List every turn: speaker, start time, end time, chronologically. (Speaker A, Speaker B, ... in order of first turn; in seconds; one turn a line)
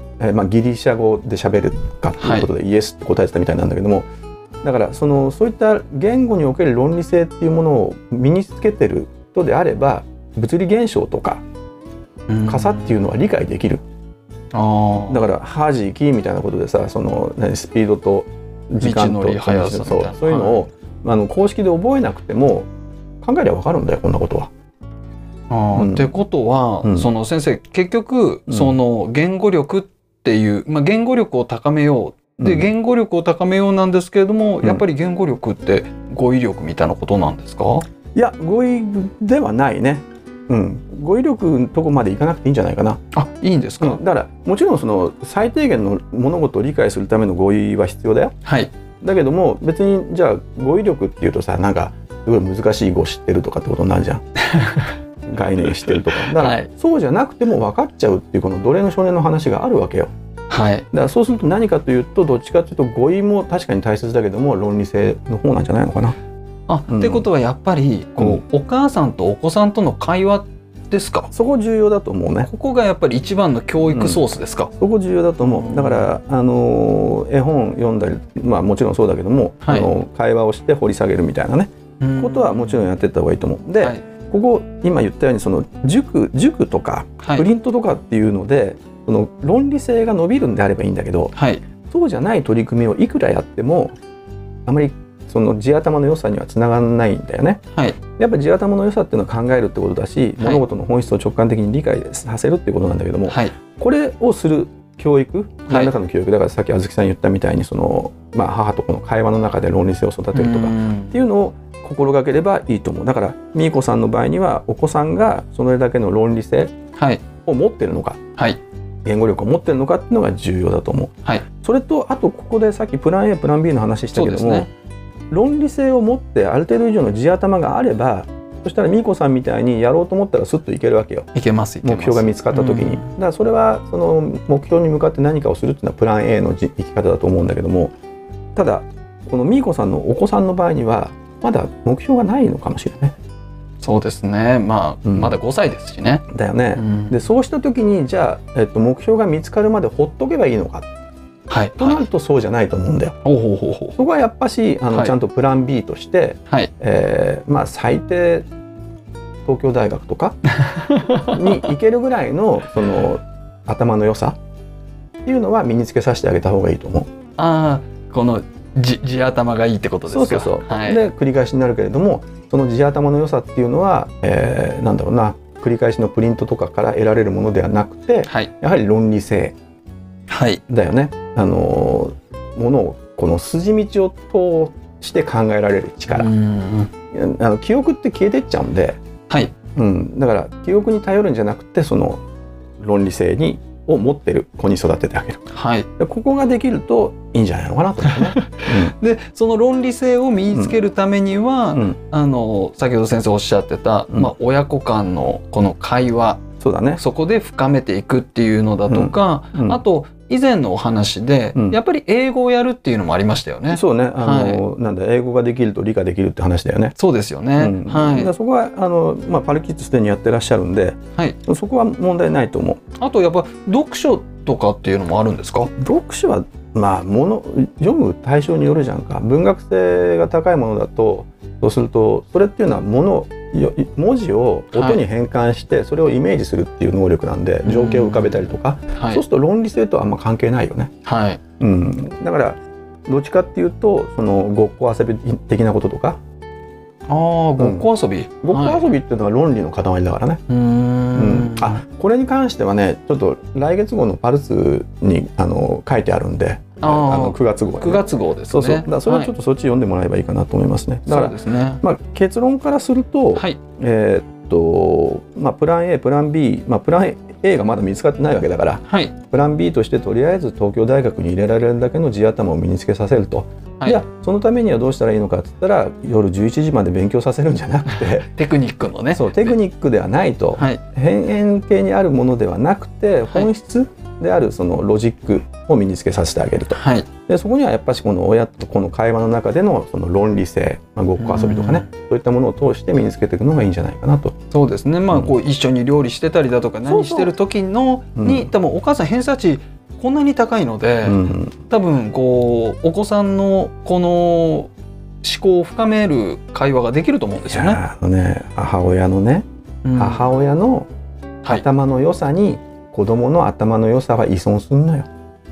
Speaker A: 0.2-4.1
Speaker B: 2.2-2.5
Speaker A: 4.6-11.4
Speaker B: 12.3-13.0
Speaker A: 12.5-13.8
Speaker B: 14.5-15.2
Speaker A: 15.1-22.7
Speaker B: 18.8-20.6
Speaker A: 23.2-24.5
Speaker B: 25.5-37.9
Speaker A: 25.7-26.1
Speaker A: 26.8-27.1
Speaker A: 28.5-28.8
Speaker A: 32.4-32.7
Speaker A: 38.1-43.0
Speaker B: 43.1-44.0
Speaker A: 43.8-48.4
Speaker B: 48.5-48.7
Speaker A: 49.0-54.2
Speaker B: 54.4-54.9
Speaker A: 55.3-60.1
Speaker B: 55.8-56.7
Speaker B: 60.5-60.9
Speaker A: 60.9-66.2
Speaker B: 66.7-71.3
Speaker A: 66.9-67.3
Speaker A: 71.3-72.5
Speaker B: 72.5-74.7
Speaker A: 73.9-74.2
Speaker A: 74.8-91.3
Speaker B: 75.4-76.1
Speaker B: 79.6-79.9
Speaker B: 82.0-82.8
Speaker B: 87.2-87.5
Speaker B: 91.3-91.6
Speaker A: 91.9-94.0
Speaker A: 94.7-97.6
Speaker A: 98.2-116.7
Speaker B: 103.3-103.5
Speaker B: 110.3-111.2
Speaker B: 117.0-117.2
Speaker A: 117.5-118.2
Speaker A: 119.0-124.7
Speaker B: 124.1-124.7
Speaker A: 125.3-131.3
Speaker B: 131.3-133.1
Speaker A: 131.8-137.9
Speaker A: 138.6-143.2
Speaker B: 143.8-147.2
Speaker A: 145.1-145.3
Speaker A: 146.3-150.9
Speaker B: 151.5-152.1
Speaker A: 151.8-153.2
Speaker B: 153.2-154.0
Speaker A: 154.0-158.5
Speaker A: 159.4-160.4
Speaker B: 160.5-161.7
Speaker A: 161.2-164.4
Speaker A: 165.2-167.1
Speaker B: 167.4-171.0
Speaker A: 170.1-179.6
Speaker B: 178.3-178.5
Speaker B: 180.3-180.6
Speaker A: 180.7-186.3
Speaker B: 186.1-186.9
Speaker A: 187.1-189.0
Speaker A: 189.8-192.2
Speaker A: 192.8-195.4
Speaker B: 195.5-195.9
Speaker A: 196.0-198.9
Speaker B: 198.1-206.4
Speaker A: 206.6-207.0
Speaker B: 207.0-214.6
Speaker A: 208.9-209.8
Speaker A: 213.7-216.9
Speaker B: 217.0-218.3
Speaker A: 217.6-222.8
Speaker B: 223.0-225.7
Speaker A: 225.8-240.9
Speaker B: 234.7-235.0
Speaker B: 237.6-238.4
Speaker B: 238.9-239.2
Speaker B: 241.1-241.4
Speaker A: 241.6-246.2
Speaker B: 247.1-248.9
Speaker A: 247.6-247.9
Speaker A: 248.4-250.4
Speaker B: 250.5-251.8
Speaker A: 251.1-278.3
Speaker B: 256.8-259.3
Speaker B: 261.1-261.8
Speaker B: 268.9-269.1
Speaker B: 278.3-279.6
Speaker A: 279.1-294.4
Speaker B: 280.6-280.8
Speaker B: 286.7-287.1
Speaker B: 291.2-291.9
Speaker B: 294.5-304.7
Speaker A: 296.9-297.3
Speaker A: 298.2-298.5
Speaker A: 301.0-301.5
Speaker B: 305.2-307.8
Speaker A: 307.5-310.9
Speaker B: 309.8-310.3
Speaker A: 311.5-315.1